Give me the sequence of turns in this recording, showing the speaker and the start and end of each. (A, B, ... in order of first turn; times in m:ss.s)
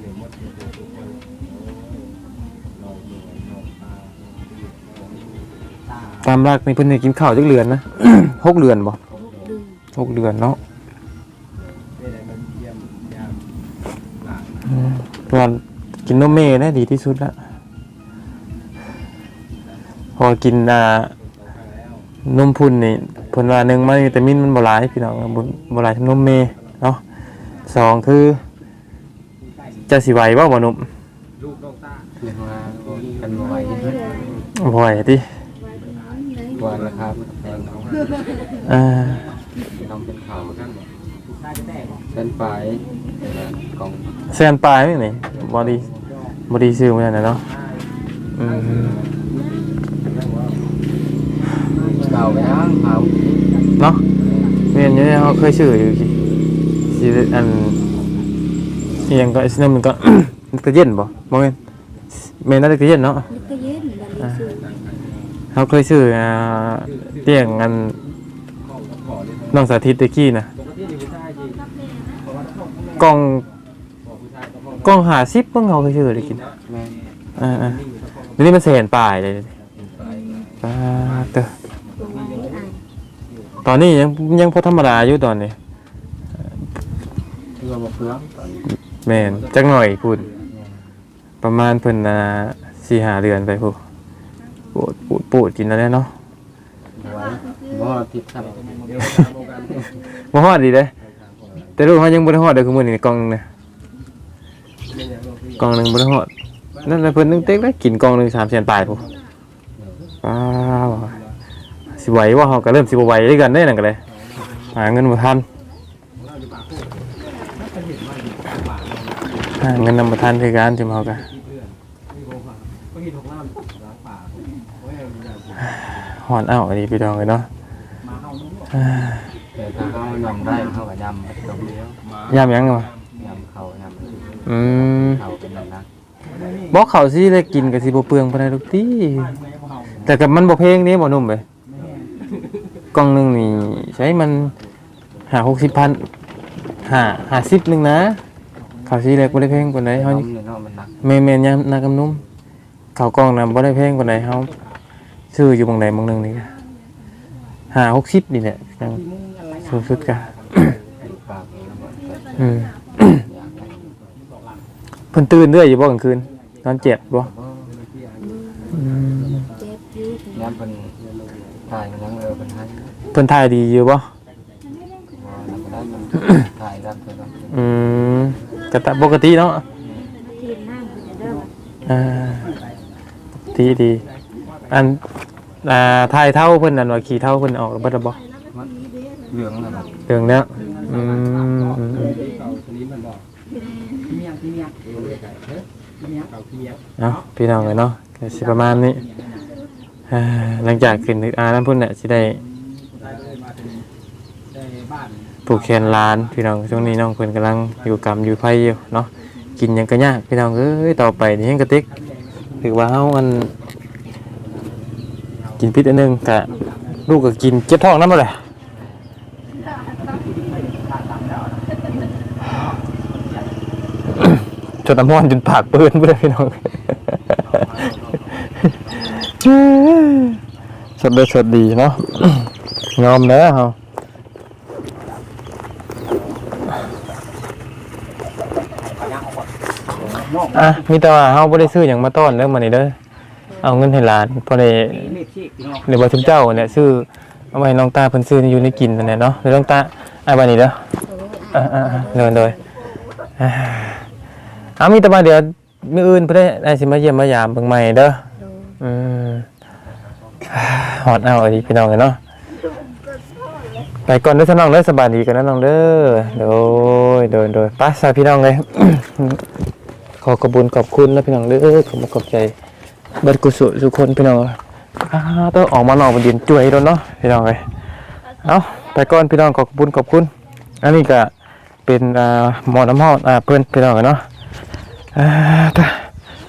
0:06.2-0:09.0 A
0:09.2-0:09.8 B
0:09.9-0:10.6 A
0:14.7-0:17.3 A
0:20.2-0:21.1 A
0:22.2-0:27.0 A
0:27.6-0:28.4 A
0:29.9-0:30.9 A
0:32.2-0:34.4 C
0:33.3-0:34.4 B
0:34.5-0:35.2 A
0:35.7-0:37.1 B
0:36.5-0:38.4 C
0:38.6-0:39.2 A
0:39.7-0:40.8 C
0:42.1-0:44.1 C
0:44.3-0:45.9 A
0:45.6-0:45.9 C
0:46.5-0:47.4 A
0:48.3-0:49.0 A
0:48.7-0:49.2 C
0:52.0-0:53.5 C
0:54.7-0:56.2 A
0:56.9-0:57.8 A
0:59.1-1:01.6 A
1:02.1-1:03.3 A
1:03.3-1:04.7 B
1:05.5-1:08.0 A
1:09.5-1:10.5 A
1:13.0-1:13.5 A
1:14.8-1:16.4 A
1:16.6-1:17.0 C
1:17.4-1:17.8 A
1:18.4-1:19.5 A
1:19.9-1:20.3 C
1:20.0-1:20.5 B
1:20.6-1:21.5 A
1:21.9-1:22.8 B
1:23.6-1:25.6 A
1:27.6-1:28.7 C
1:29.0-1:30.3 A
1:30.5-1:30.9 C
1:31.4-1:33.8 A
1:34.7-1:36.1 A
1:37.0-1:39.7 C
1:39.9-1:40.9 A
1:41.8-1:43.4 A
1:45.6-1:46.3 A
1:46.8-1:49.1 A
1:49.8-1:50.1 C
1:50.2-1:51.2 A
1:52.0-1:54.0 A
1:54.7-1:55.4 A
1:59.6-2:01.3 A
2:05.8-2:07.5 A
2:08.7-2:09.2 A
2:09.5-2:12.0 C
2:12.3-2:12.9 A
2:13.1-2:15.9 C
2:14.4-2:15.2 A
2:16.7-2:19.4 A
2:20.0-2:21.4 A
2:22.9-2:24.5 A
2:25.3-2:26.0 A
2:26.8-2:28.2 A
2:28.8-2:30.2 A
2:29.9-2:31.0 C
2:31.0-2:32.2 A
2:33.0-2:34.5 A
2:35.3-2:36.5 A
2:37.7-2:39.0 A
2:39.6-2:40.8 A
2:41.0-2:44.0 C
2:42.4-2:43.2 A
2:45.1-2:47.3 A
2:47.1-2:47.8 C
2:48.2-2:48.8 B
2:48.7-2:49.4 A
2:49.4-2:50.6 B
2:50.3-2:51.0 C
2:51.6-2:52.9 C
2:53.1-2:54.1 A
2:55.1-2:57.9 C
2:57.5-2:59.6 A
2:59.8-3:00.1 C
3:00.2-3:01.5 B
3:01.9-3:02.5 A
3:03.5-3:04.0 A
3:04.7-3:05.0 A
3:05.6-3:08.2 A
3:08.5-3:10.0 C
3:10.1-3:12.2 A
3:10.6-3:10.9 B
3:12.0-3:12.6 B
3:12.4-3:13.2 C
3:13.8-3:14.1 B
3:14.8-3:15.4 C
3:17.0-3:19.0 A
3:20.1-3:22.4 A
3:25.4-3:31.9 A
3:32.6-3:33.5 A
3:35.6-3:36.5 A
3:37.0-3:38.4 A
3:38.7-3:39.1 C
3:44.2-3:47.4 A
3:47.5-3:48.2 C
3:49.0-3:50.4 A
3:51.0-3:53.8 A
4:00.5-4:02.9 A
4:03.6-4:05.2 A
4:05.8-4:10.8 A
4:11.0-4:12.6 B
4:11.5-4:12.6 A
4:13.4-4:14.0 A
4:14.8-4:18.2 A
4:18.4-4:18.8 B
4:18.8-4:19.5 A
4:20.4-4:22.2 A
4:24.0-4:29.4 A
4:30.2-4:32.5 A
4:33.2-4:37.6 A
4:38.4-4:40.3 A
4:40.8-4:41.3 A
4:41.8-4:44.2 A
4:45.1-4:46.1 A